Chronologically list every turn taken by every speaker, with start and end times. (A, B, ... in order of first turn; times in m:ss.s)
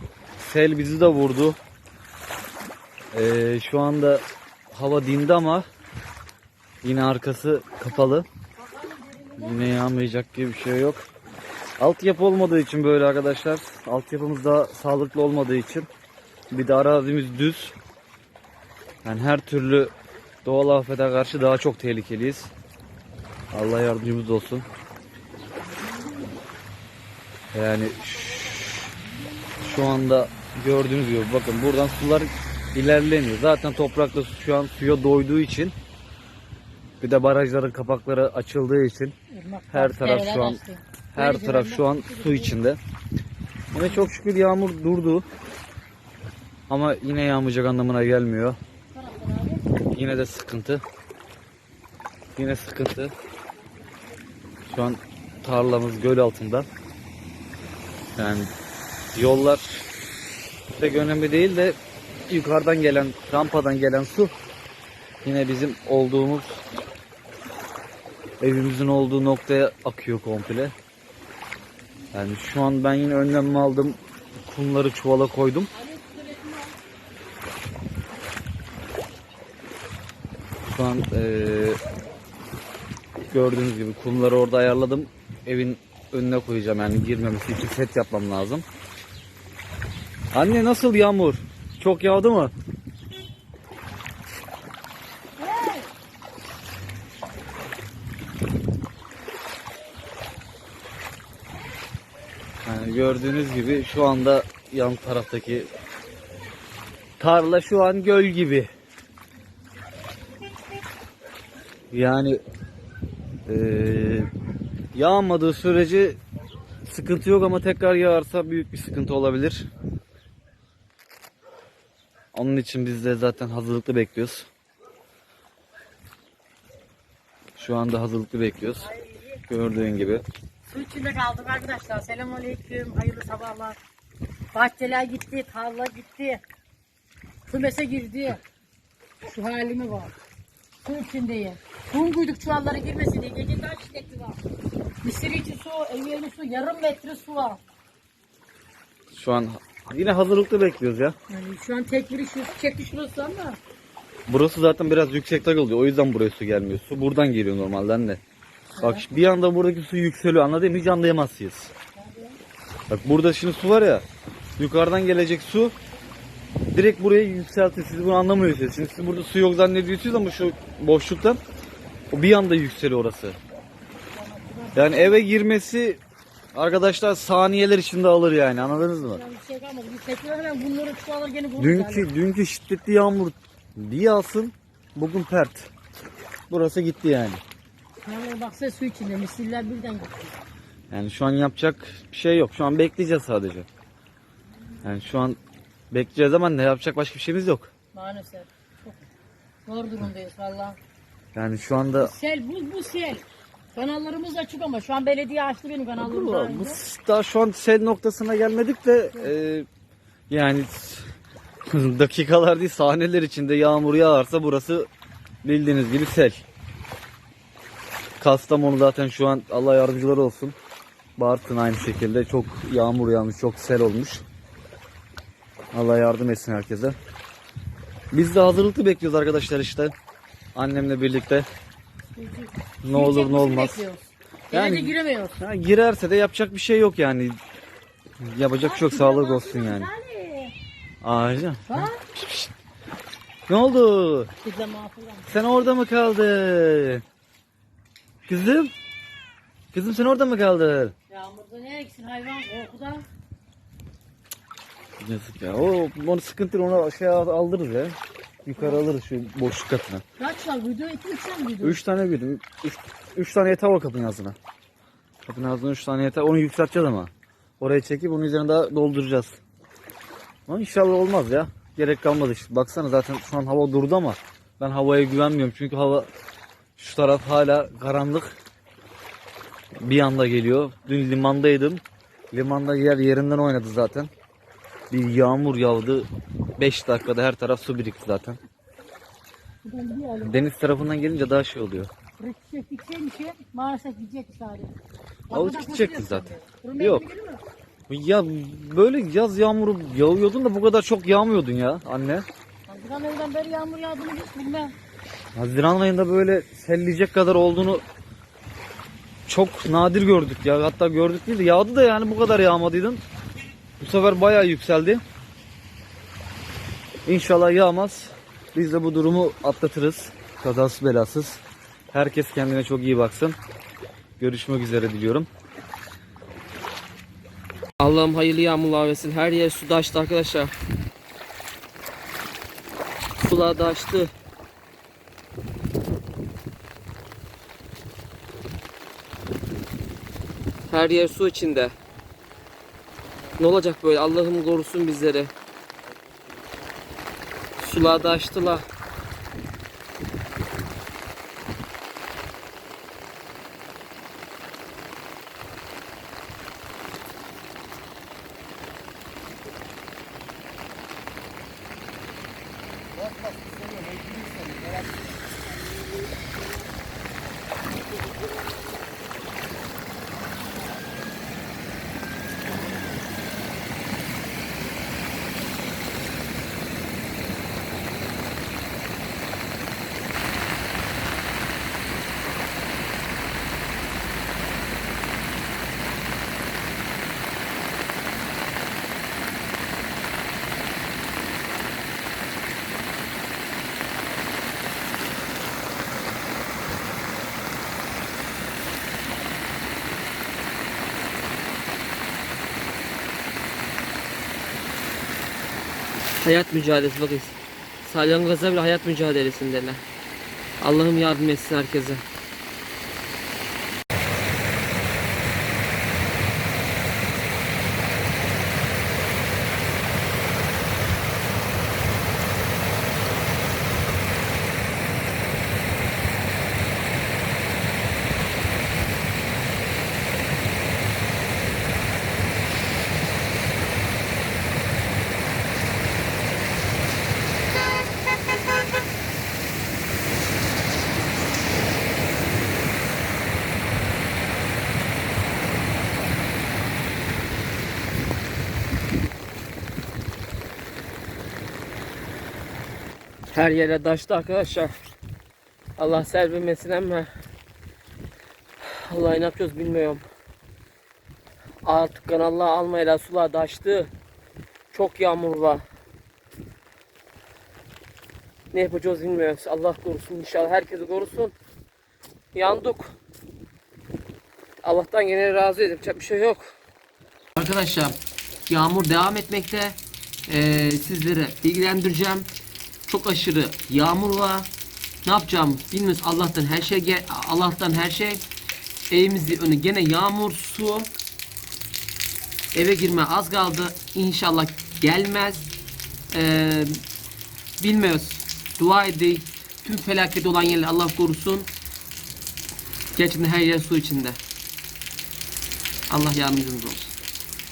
0:00.4-0:01.6 A
0:03.1-0:05.6 A
0:06.8-0:08.3 A
0:08.6-0:09.6 B
0:09.4-0:11.0 A
0:11.8-0:15.9 A
0:16.5-0:17.8 A
0:19.0-0:19.9 A
0:20.4-0:22.5 A
0:23.5-0:24.6 A
0:27.5-0:28.2 A
0:29.6-0:35.7 A
0:37.0-0:39.1 A
0:39.3-0:42.6 B
0:39.7-0:40.6 A
0:41.1-0:42.8 A
0:43.7-0:45.2 A
0:46.7-0:48.6 A
0:48.9-0:49.7 B
0:49.9-0:50.8 A
0:52.4-0:53.1 A
0:54.7-0:56.7 A
0:58.2-0:58.5 A
0:59.1-0:59.8 A
1:00.8-1:01.8 A
1:02.3-1:04.3 A
1:05.2-1:06.6 A
1:08.4-1:10.7 A
1:12.1-1:15.7 A
1:15.7-1:16.8 B
1:20.7-1:21.8 A
1:23.3-1:28.6 A
1:30.3-1:32.5 A
1:35.4-1:35.9 B
1:42.6-1:45.7 A
1:47.2-1:48.7 A
1:51.9-1:52.4 A
1:53.5-1:54.3 A
1:54.9-1:56.2 A
1:56.8-1:59.7 A
2:02.3-2:04.5 A
2:07.6-2:08.9 A
2:08.8-2:09.4 B
2:09.5-2:10.2 A
2:10.7-2:13.8 B
2:14.5-2:16.4 B
2:17.4-2:18.4 B
2:19.2-2:20.1 B
2:20.8-2:24.4 B
2:25.0-2:27.6 B
2:29.1-2:31.2 A
2:31.3-2:33.6 B
2:34.3-2:38.2 A
2:38.7-2:39.1 B
2:38.8-2:41.7 A
2:42.0-2:42.4 B
2:42.9-2:44.0 A
2:44.6-2:45.7 A
2:46.7-2:51.4 A
2:52.1-2:53.4 A
2:54.1-2:55.2 B
2:54.7-2:56.0 A
2:56.5-2:59.2 A
2:58.8-3:02.1 B
3:01.6-3:05.7 A
3:06.5-3:07.4 A
3:08.0-3:10.4 B
3:10.9-3:13.7 A
3:14.8-3:15.4 A
3:15.9-3:17.7 A
3:17.9-3:19.1 B
3:19.6-3:20.8 B
3:21.3-3:22.1 A
3:22.0-3:26.8 B
3:26.0-3:29.7 A
3:30.3-3:31.1 A
3:31.6-3:34.9 A
3:35.4-3:36.4 A
3:38.2-3:40.5 A
3:41.2-3:44.2 A
3:45.7-3:47.0 A
3:48.1-3:49.9 A
3:50.5-3:51.5 A
3:52.1-3:55.4 B
3:52.8-3:53.8 A
3:54.5-3:57.4 A
3:58.2-3:59.9 A
3:58.6-4:00.5 B
4:01.0-4:02.5 A
4:01.7-4:02.0 B
4:03.5-4:04.3 A
4:04.4-4:05.3 B
4:05.3-4:07.0 A
4:08.2-4:08.7 A
4:09.7-4:10.9 A
4:11.1-4:13.0 B
4:15.0-4:20.0 A
4:18.6-4:18.8 B
4:20.2-4:21.8 B
4:21.6-4:24.4 A
4:25.2-4:29.4 A
4:30.5-4:36.1 A
4:36.8-4:38.4 A
4:39.8-4:44.1 A
4:44.9-4:48.4 A
4:49.6-4:50.5 B
4:50.2-4:51.9 A
4:52.2-4:54.7 B
4:55.3-4:57.0 A
4:55.3-4:57.4 B
4:57.9-5:02.3 A
5:02.7-5:04.7 B
5:05.4-5:07.8 A
5:09.3-5:13.0 A
5:13.8-5:15.0 A
5:17.0-5:21.4 A
5:21.9-5:23.4 A
5:24.2-5:25.3 A
5:27.8-5:30.5 C
5:33.2-5:34.1 C
5:40.7-5:41.7 C
5:43.4-5:45.3 C
5:47.6-5:48.6 C
6:46.2-6:49.8 C
6:50.6-6:52.0 C
7:33.3-7:34.7 C
7:35.8-7:37.1 C
7:38.6-7:40.0 C
7:41.6-7:43.9 C
7:44.7-7:45.6 C
7:48.5-7:51.3 C
7:52.3-7:52.9 C
7:54.6-7:56.5 C
7:57.4-8:02.3 C
8:02.9-8:04.5 C
8:05.0-8:08.2 C
8:08.9-8:10.9 C
8:12.5-8:15.5 C
8:16.1-8:16.8 C
8:17.6-8:21.5 C
8:23.0-8:24.2 C
8:25.9-8:26.9 C